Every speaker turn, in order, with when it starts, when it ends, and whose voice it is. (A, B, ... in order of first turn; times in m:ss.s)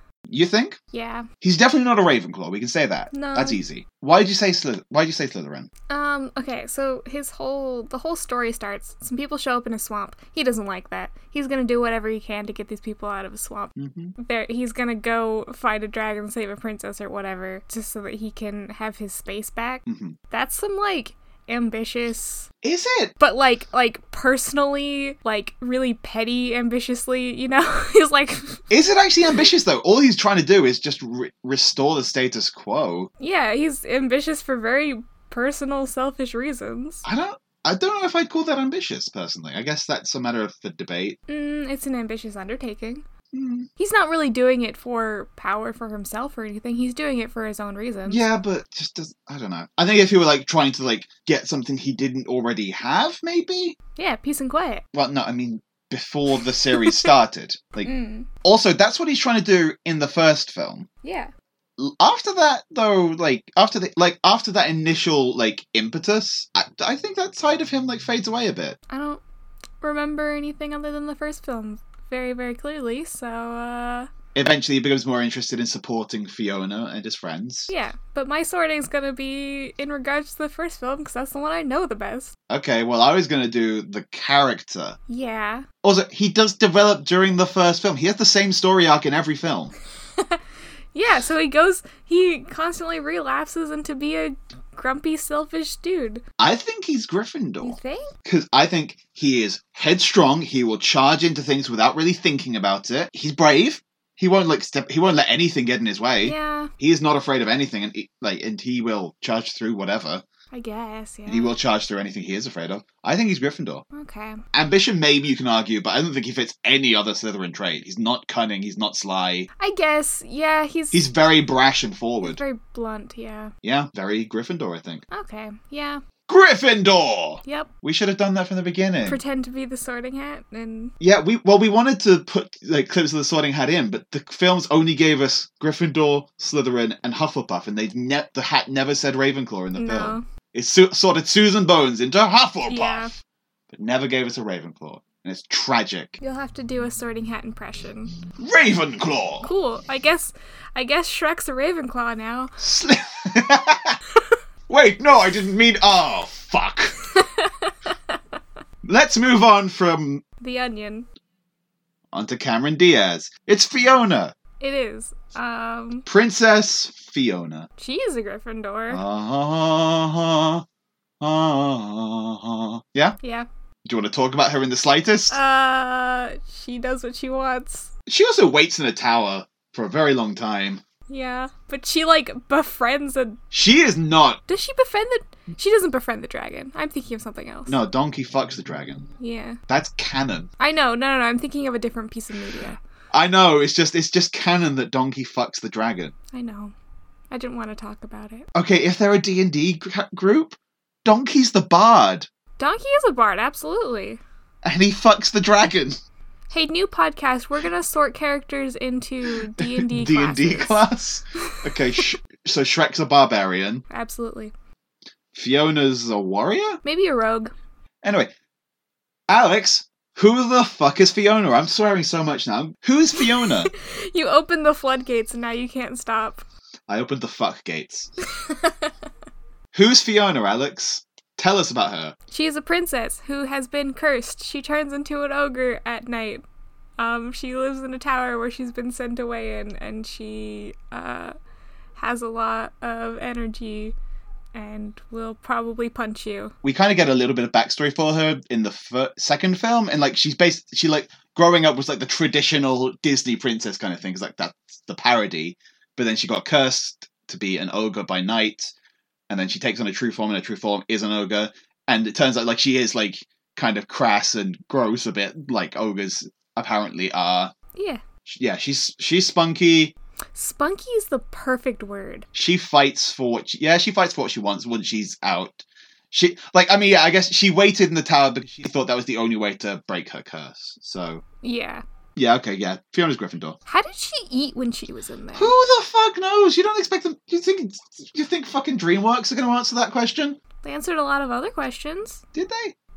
0:00.3-0:00.8 A
0:00.9-0:01.3 B
0:01.4-0:05.7 A
0:03.1-0:03.6 B
0:05.9-0:22.5 B
0:13.8-0:14.1 A
0:19.9-0:20.2 A
0:22.6-0:23.1 A
0:23.2-0:28.6 B
0:28.7-0:33.1 A
0:33.2-0:37.0 B
0:37.0-0:41.2 A
0:41.3-0:43.0 B
0:43.3-0:43.7 A
0:43.8-0:48.2 B
0:48.1-0:53.8 A
0:54.0-0:54.8 B
0:54.9-0:57.9 A
0:57.8-0:58.3 B
0:58.4-1:00.9 A
1:01.0-1:01.3 B
1:01.8-1:08.8 A
1:08.9-1:09.2 B
1:09.8-1:14.1 B
1:14.4-1:17.7 A
1:17.7-1:22.3 B
1:22.5-1:25.0 A
1:25.1-1:25.6 B
1:25.8-1:29.7 A
1:30.9-1:36.2 B
1:36.4-1:50.2 A
1:37.6-1:38.1 B
1:46.2-1:46.7 B
1:50.5-1:51.5 B
1:51.3-1:53.8 A
1:53.9-1:54.4 B
1:54.5-1:59.5 A
1:59.6-2:01.0 B
2:00.9-2:02.4 A
2:02.2-2:03.5 B
2:03.6-2:05.0 A
2:05.1-2:06.0 B
2:06.3-2:09.2 A
2:07.4-2:07.7 B
2:09.0-2:10.9 B
2:11.0-2:23.2 A
2:19.8-2:20.2 B
2:22.7-2:23.1 B
2:23.7-2:26.2 A
2:26.2-2:28.1 B
2:28.4-2:29.5 A
2:29.4-2:32.6 B
2:32.6-2:34.0 A
2:34.7-2:37.0 A
2:37.1-2:37.7 B
2:38.8-2:40.2 A
2:40.4-2:41.1 B
2:42.1-2:44.3 A
2:44.6-2:46.0 B
2:46.0-2:47.7 A
2:47.8-2:49.0 B
2:48.9-2:50.6 A
2:51.2-2:53.2 A
2:53.2-2:53.5 B
2:53.8-2:55.4 A
2:55.3-2:57.9 B
2:58.1-3:00.8 A
3:01.1-3:03.4 B
3:03.5-3:04.4 A
3:04.5-3:07.8 B
3:07.7-3:09.0 A
3:09.2-3:09.6 B
3:09.7-3:10.5 A
3:10.6-3:12.8 B
3:13.1-3:16.1 A
3:16.3-3:16.7 B
3:17.3-3:18.5 B
3:18.5-3:22.3 A
3:22.6-3:24.2 B
3:24.6-3:26.0 A
3:26.5-3:30.8 B
3:29.5-3:33.8 A
3:31.4-3:32.0 B
3:33.9-3:34.5 B
3:35.3-3:36.8 A
3:36.8-3:37.5 B
3:38.0-3:38.3 A
3:39.3-3:43.7 A
3:43.6-3:46.4 B
3:46.9-3:48.1 A
3:48.4-3:48.9 B
3:49.7-3:52.1 A
3:52.3-3:56.4 B
3:57.0-4:01.4 B
4:02.0-4:04.0 B
4:04.5-4:06.5 B
4:06.6-4:18.7 A
4:19.3-4:27.5 A
4:27.8-4:28.0 B
4:28.2-4:29.9 A
4:30.4-4:32.3 B
4:32.3-4:41.2 A
4:41.4-4:41.8 B
4:42.2-4:43.6 A
4:43.7-4:45.5 B
4:45.4-4:50.4 A
4:50.6-4:52.2 B
4:52.3-4:52.8 A